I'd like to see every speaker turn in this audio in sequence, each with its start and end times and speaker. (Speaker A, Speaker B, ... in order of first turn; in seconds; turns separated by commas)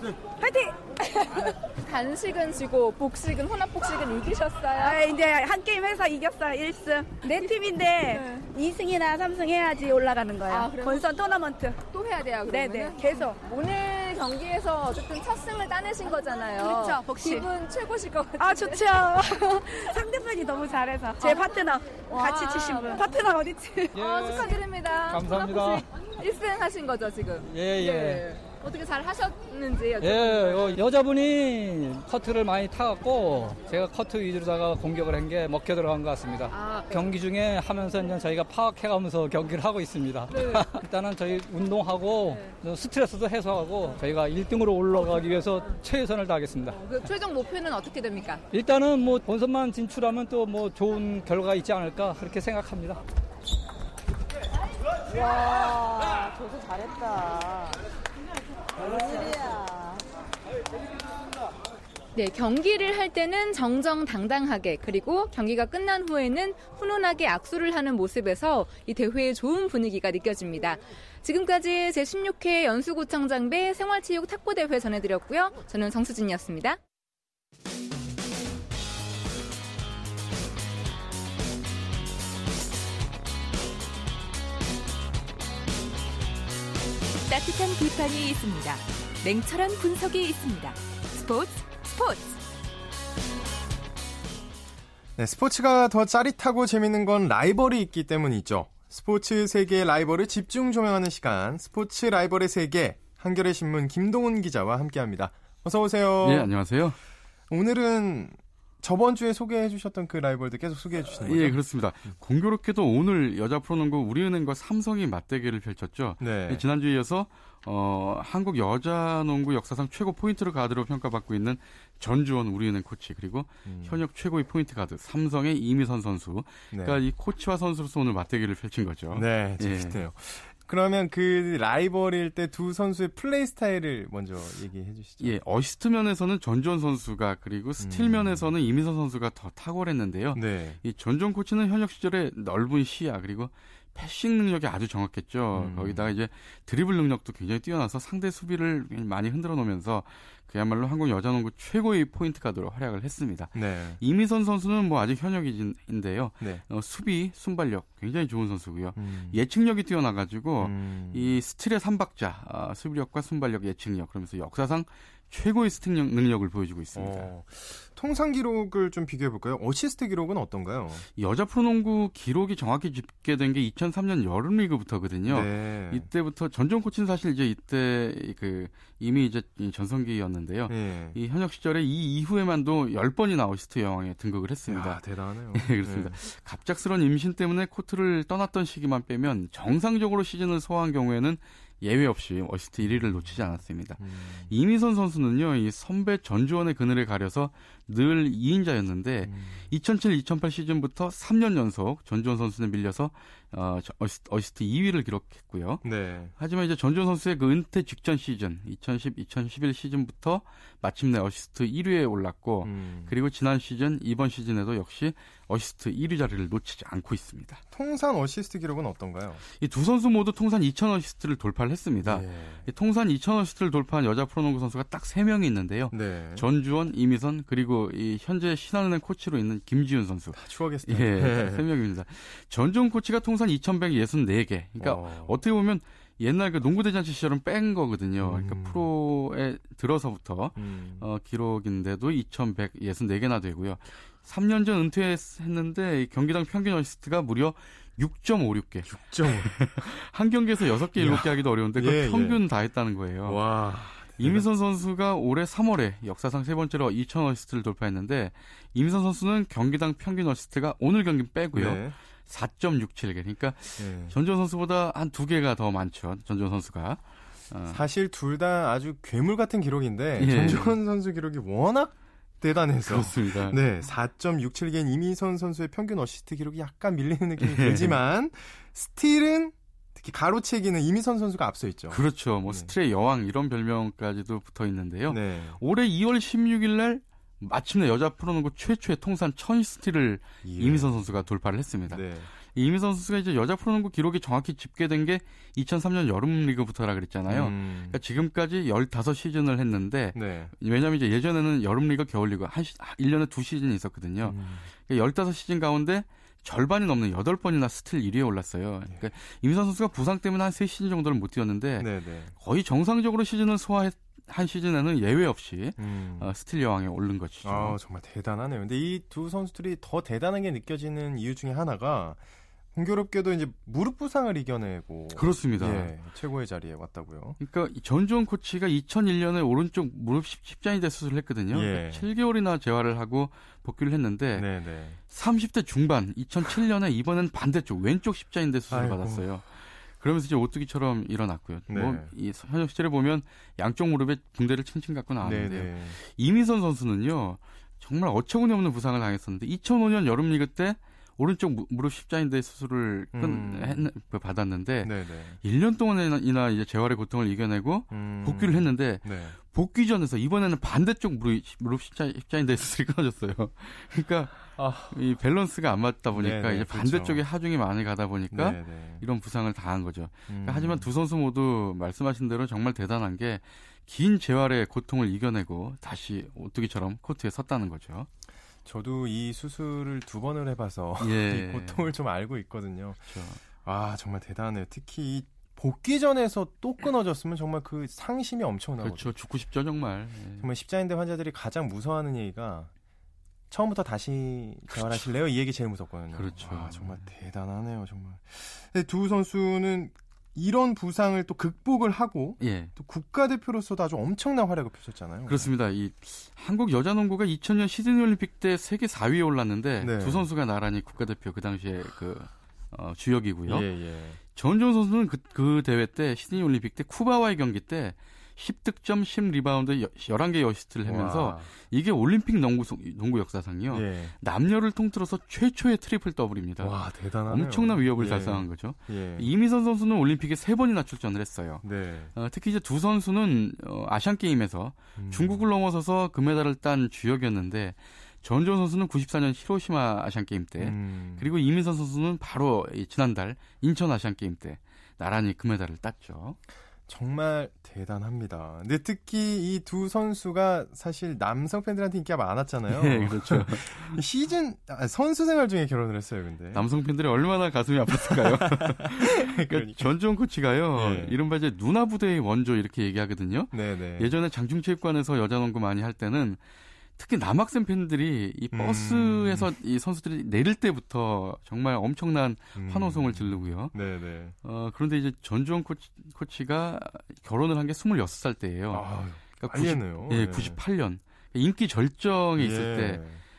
Speaker A: 0.3-1.6, Speaker B: 1.8-5.0, Speaker A: 4.7-11.8, Speaker B: 7.2-8.2, Speaker B: 10.5-11.1, Speaker B: 11.9-18.9, Speaker A: 12.5-13.4, Speaker A: 16.6-17.5, Speaker A: 18.4-24.5, Speaker B: 21.2-23.1, Speaker C: 23.9-25.9, Speaker B: 23.9-30.8, Speaker C: 27.5-28.3, Speaker C: 30.0-46.8, Speaker B: 36.5-37.0, Speaker B: 40.3-40.8, Speaker B: 46.7-48.4, Speaker C: 48.5-53.0, Speaker B: 55.4-56.6, Speaker B: 59.0-59.5, Speaker B: 62.1-76.8, Speaker D: 87.3-92.4, Speaker E: 95.2-106.8, Speaker F: 106.2-107.0, Speaker E: 107.5-112.2, Speaker F: 111.1-130.0, Speaker E: 116.2-116.7, Speaker E: 123.7-124.0, Speaker E: 126.7-127.0, Speaker E: 129.1-135.4, Speaker F: 135.2-167.3, Speaker E: 137.8-138.5, Speaker E: 140.3-140.8, Speaker E: 145.5-146.1, Speaker E: 153.5-154.0, Speaker E: 156.4-156.7, Speaker E: 158.9-159.4, Speaker E: 160.6-161.3, Speaker E: 166.9-171.1, Speaker F: 171.2-185.0, Speaker E: 175.3-176.1, Speaker E: 180.7-181.2, Speaker E: 184.7-186.2, Speaker F: 185.5-217.6, Speaker E: 192.8-194.5, Speaker E: 199.2-199.7, Speaker E: 205.8-206.3, Speaker E: 212.6-213.2, Speaker E: 217.7-219.4, Speaker F: 219.6-267.8, Speaker E: 222.0-222.7, Speaker E: 225.9-226.5, Speaker E: 230.3-231.7, Speaker E: 234.8-235.4, Speaker E: 238.2-238.9, Speaker E: 240.6-241.1, Speaker E: 248.9-249.9, Speaker E: 250.9-252.4, Speaker E: 253.2-254.4, Speaker E: 261.5-262.0, Speaker E: 263.8-264.1, Speaker E: 267.7-282.7, Speaker F: 270.2-270.8, Speaker F: 272.8-273.6, Speaker F: 277.4-278.0, Speaker F: 281.9-317.8, Speaker E: 285.1-285.6, Speaker E: 290.4-292.3, Speaker E: 297.3-298.0, Speaker E: 300.1-300.5, Speaker E: 304.2-304.7, Speaker E: 311.8-312.4, Speaker E: 315.8-316.3, Speaker E: 317.4-322.2, Speaker E: 322.7-327.4, Speaker F: 325.1-325.9, Speaker F: 327.4-334.5, Speaker E: 331.5-332.1, Speaker E: 334.4-335.0, Speaker F: 335.0-378.1, Speaker E: 338.7-339.3, Speaker E: 341.7-342.1, Speaker E: 345.2-346.0, Speaker E: 353.1-353.9, Speaker E: 354.8-355.4, Speaker E: 357.9-359.4, Speaker E: 364.5-365.0, Speaker E: 366.1-367.2, Speaker E: 368.3-369.1, Speaker E: 370.3-370.9, Speaker E: 378.6-389.1, Speaker F: 381.0-381.9, Speaker F: 383.1-383.4, Speaker F: 388.8-390.5, Speaker E: 390.4-392.7, Speaker E: 393.5-405.5, Speaker F: 394.7-395.1, Speaker F: 396.1-397.1, Speaker F: 402.4-402.7, Speaker F: 405.3-413.7, Speaker E: 409.8-410.3, Speaker E: 413.5-414.2, Speaker F: 414.2-446.4, Speaker E: 420.9-421.5, Speaker E: 423.7-424.2, Speaker E: 426.6-429.3, Speaker E: 431.6-432.1, Speaker E: 435.0-435.5, Speaker E: 440.6-441.3, Speaker E: 446.9-456.7, Speaker F: 452.7-454.0, Speaker F: 456.5-466.4, Speaker E: 458.0-460.0, Speaker E: 460.7-461.2, Speaker E: 463.5-464.1, Speaker F: 467.0-473.8, Speaker E: 468.5-469.5, Speaker E: 472.6-474.4, Speaker F: 474.4-483.0, Speaker E: 478.7-480.6, Speaker E: 482.4-483.2